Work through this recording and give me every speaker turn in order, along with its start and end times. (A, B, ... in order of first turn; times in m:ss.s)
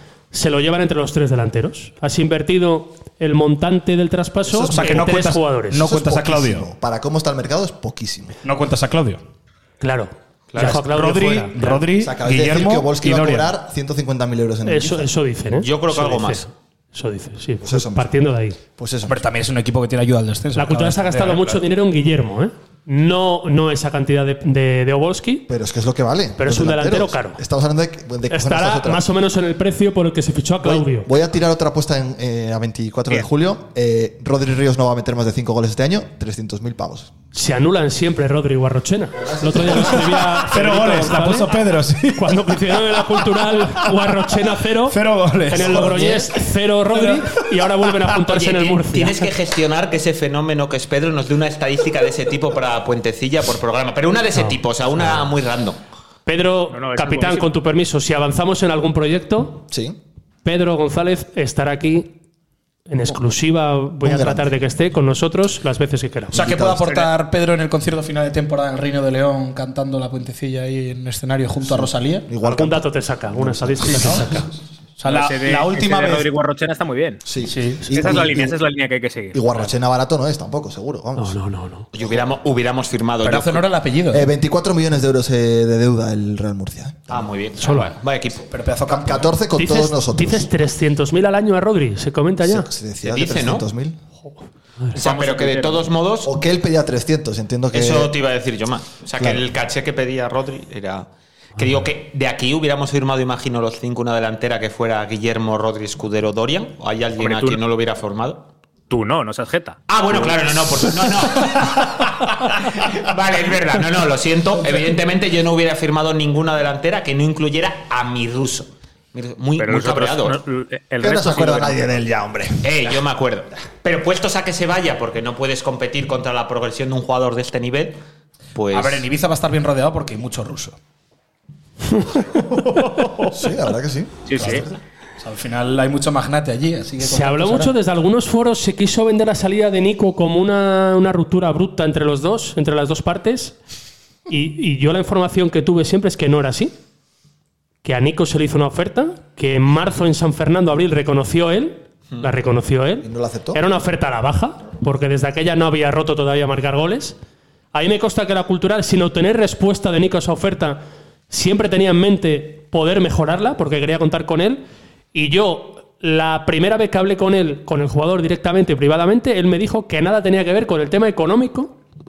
0:00.3-0:05.8 A
0:04.4-0:05.1 B
0:04.6-0:06.7 C
0:05.8-0:08.4 B
0:08.4-0:09.2 C
0:09.8-0:11.8 A
0:10.5-0:10.8 D
0:10.6-0:13.5 C
0:12.0-0:15.1 B
0:14.6-0:18.6 A
0:15.6-0:16.4 D
0:17.6-0:18.2 B
0:18.8-0:19.2 B
0:19.0-0:21.6 C
0:20.5-0:25.5 A
0:25.5-0:29.0 B
0:26.4-0:27.4 A
0:28.3-0:31.1 A
0:30.6-0:37.1 B
0:37.3-0:41.5 A
0:39.2-0:40.0 B
0:39.7-0:43.9 C
0:42.1-0:49.3 A
0:44.8-0:46.3 C
0:45.8-0:46.2 B
0:46.9-0:47.4 C
0:48.2-0:55.8 D
0:56.2-0:59.6 A
0:56.7-0:57.5 E
0:59.7-1:00.0 B
1:00.4-1:02.1 A
1:02.9-1:06.4 A
1:04.0-1:04.6 B
1:06.3-1:07.0 B
1:06.3-1:12.3 C
1:11.6-1:14.3 B
1:12.4-1:14.5 A
1:15.0-1:16.3 C
1:15.0-1:17.2 E
1:17.2-1:18.6 B
1:17.4-1:17.9 C
1:17.9-1:19.7 E
1:19.3-1:21.4 B
1:21.2-1:21.9 A
1:21.9-1:23.6 D
1:22.0-1:22.2 B
1:23.2-1:24.3 C
1:24.1-1:27.2 B
1:27.1-1:28.5 D
1:27.6-1:27.9 A
1:28.5-1:29.3 C
1:28.9-1:30.5 B
1:29.6-1:32.7 A
1:32.4-1:34.0 B
1:33.0-1:33.6 D
1:34.9-1:35.9 E
1:34.9-1:36.3 D
1:36.2-1:38.1 B
1:37.7-1:48.4 D
1:39.2-1:39.4 B
1:47.2-1:47.6 E
1:48.9-1:50.4 E
1:49.9-2:00.4 D
1:59.6-2:02.0 E
2:01.0-2:02.8 B
2:02.6-2:08.0 D
2:08.5-2:09.0 D
2:08.7-2:10.8 C
2:12.6-2:13.3 A
2:13.3-2:14.7 B
2:14.2-2:14.6 E
2:15.2-2:17.7 C
2:17.0-2:23.6 A
2:24.3-2:26.7 A
2:27.8-2:37.1 A
2:33.0-2:33.6 B
2:37.7-2:51.7 A